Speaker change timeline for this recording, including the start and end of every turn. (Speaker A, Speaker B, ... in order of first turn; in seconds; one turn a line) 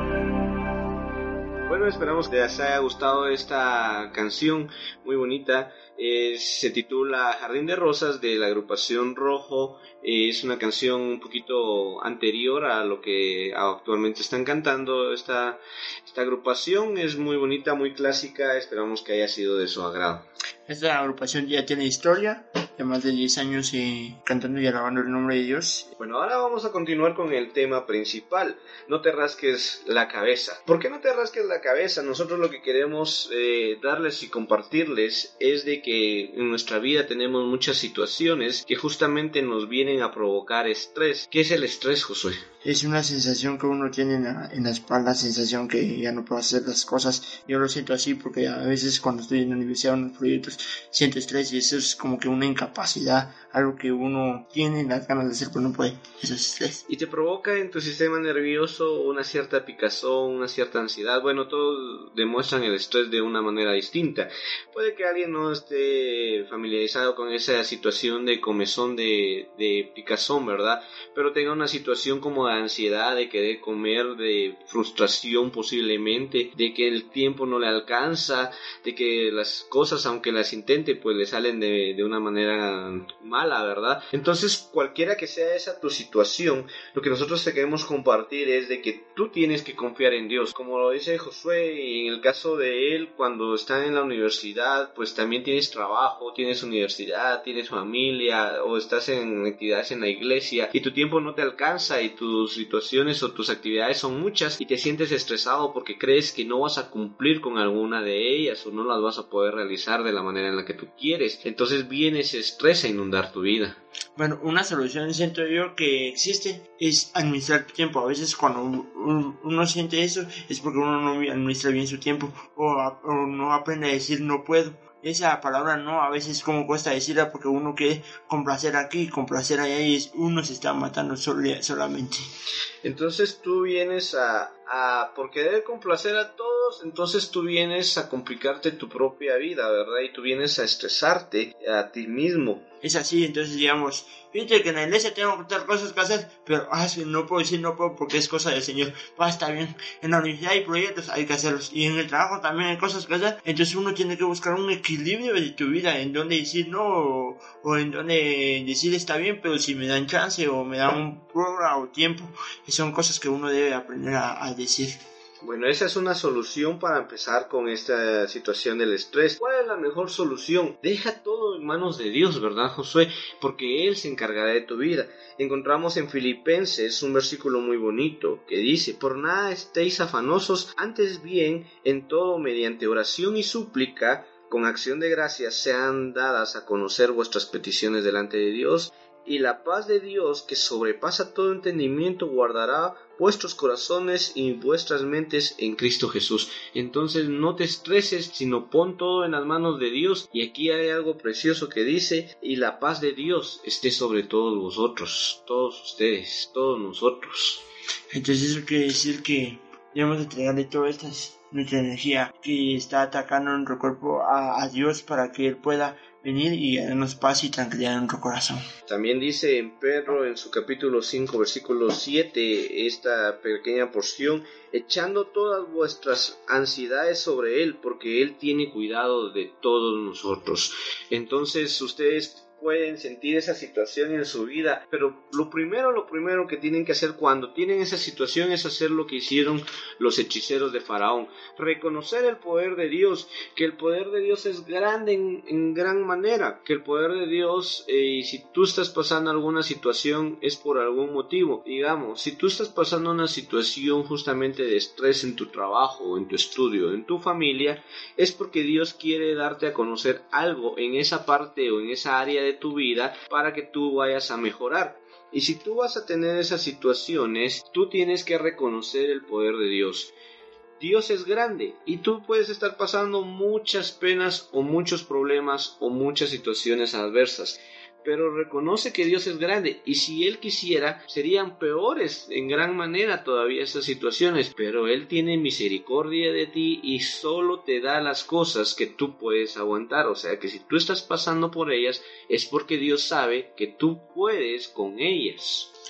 Speaker A: 1.7-20.2
Speaker B: 20.7-25.9
Speaker A: 26.0-42.4
Speaker B: 42.6-56.8
Speaker A: 56.9-113.8
Speaker B: 114.2-132.3
Speaker A: 132.8-142.6
Speaker B: 142.8-165.0
Speaker A: 165.4-207.6
Speaker B: 208.1-218.7
Speaker A: 218.9-270.1
Speaker A: 270.8-295.7